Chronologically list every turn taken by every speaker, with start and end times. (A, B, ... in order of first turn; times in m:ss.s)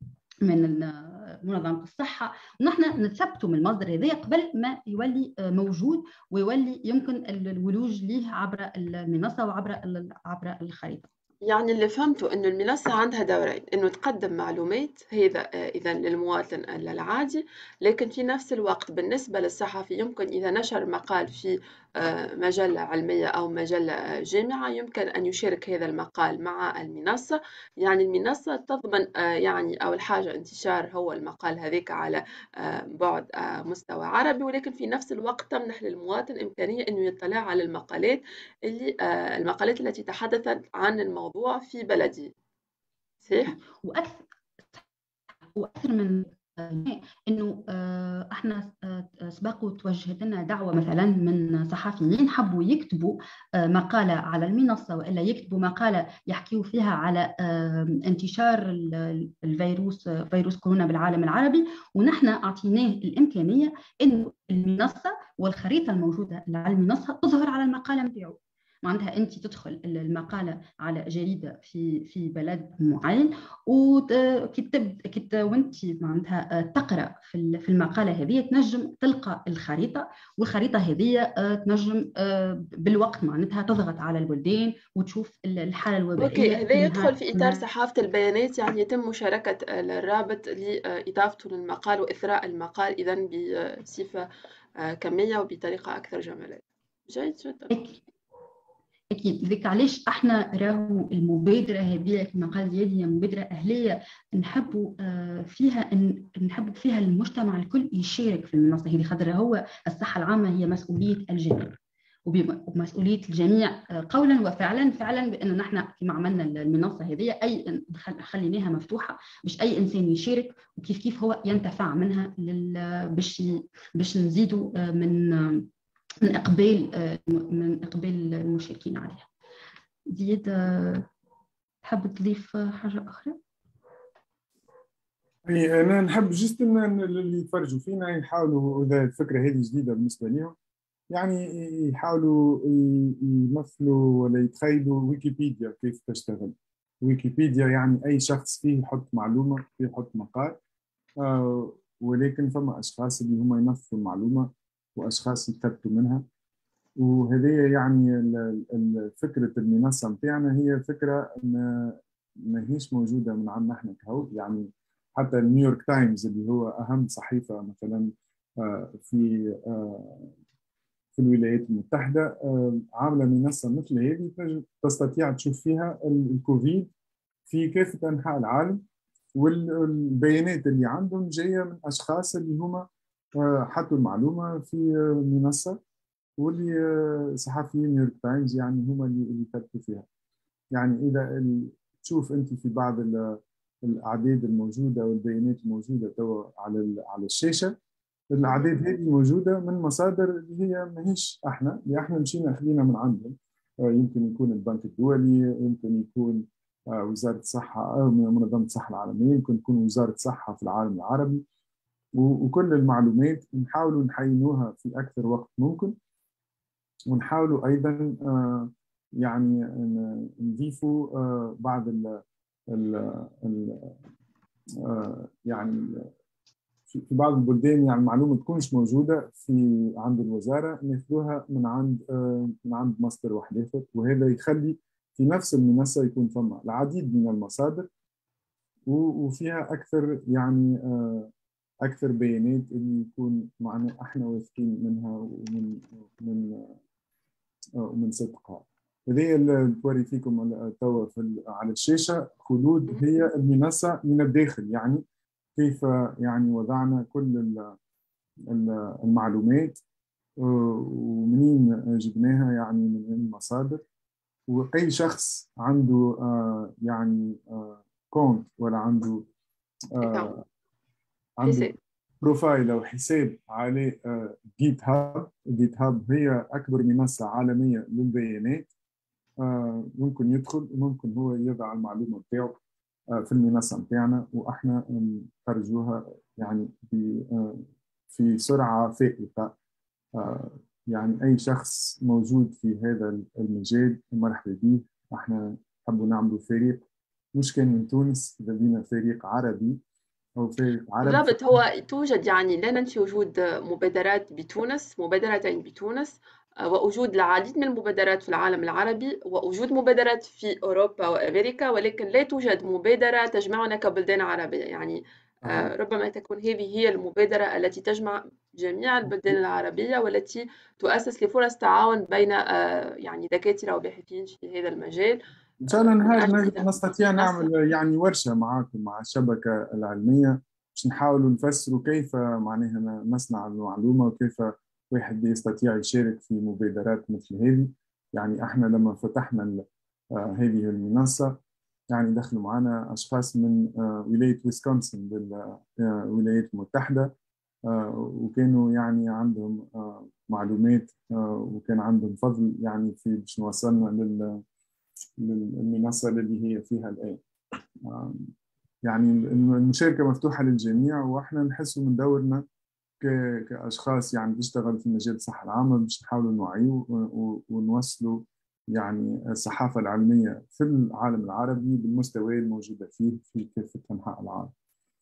0:00.4-0:11.1 A
0:11.4-0:42.3 B
0:43.2-0:43.5 B
0:43.7-0:44.8 A
0:45.5-1:27.7 A
1:26.2-1:37.7 B
1:37.7-1:38.0 A
1:39.1-2:05.7 A
2:06.2-2:09.3 A
2:10.1-2:11.1 A
2:11.8-2:13.4 A
2:15.5-2:20.6 C
2:21.1-2:30.6 C
2:31.2-2:36.2 C
2:37.0-2:50.3 C
2:51.2-2:56.9 C
2:57.5-2:58.8 C
2:59.4-3:02.8 C
3:03.4-3:05.8 C
3:06.4-3:10.1 C
3:10.7-3:17.7 C
3:18.3-3:31.4 C
3:18.5-3:18.8 B
3:32.2-3:35.9 C
3:37.1-3:44.0 C
3:44.8-3:46.1 C
3:46.9-3:57.9 C
3:58.9-4:01.3 C
4:01.8-4:06.8 C
4:07.8-4:15.0 C
4:15.6-4:17.8 C
4:18.5-4:19.8 C
4:20.4-4:23.8 C
4:24.5-4:29.3 C
4:30.0-4:30.4 C
4:30.0-4:30.3 B
4:31.4-4:38.7 C
4:31.4-4:31.7 B
4:39.4-4:42.6 C
4:43.1-4:49.5 C
4:50.2-4:56.8 C
4:57.4-4:59.8 C
5:00.4-5:01.6 C
5:01.0-5:27.5 B
5:25.6-5:39.6 C
5:40.2-5:41.4 C
5:41.9-5:47.1 C
5:47.7-5:54.4 C
5:55.2-5:57.2 C
5:57.8-5:58.3 C
5:58.9-6:02.4 C
6:03.0-6:08.2 C
6:08.7-6:14.5 C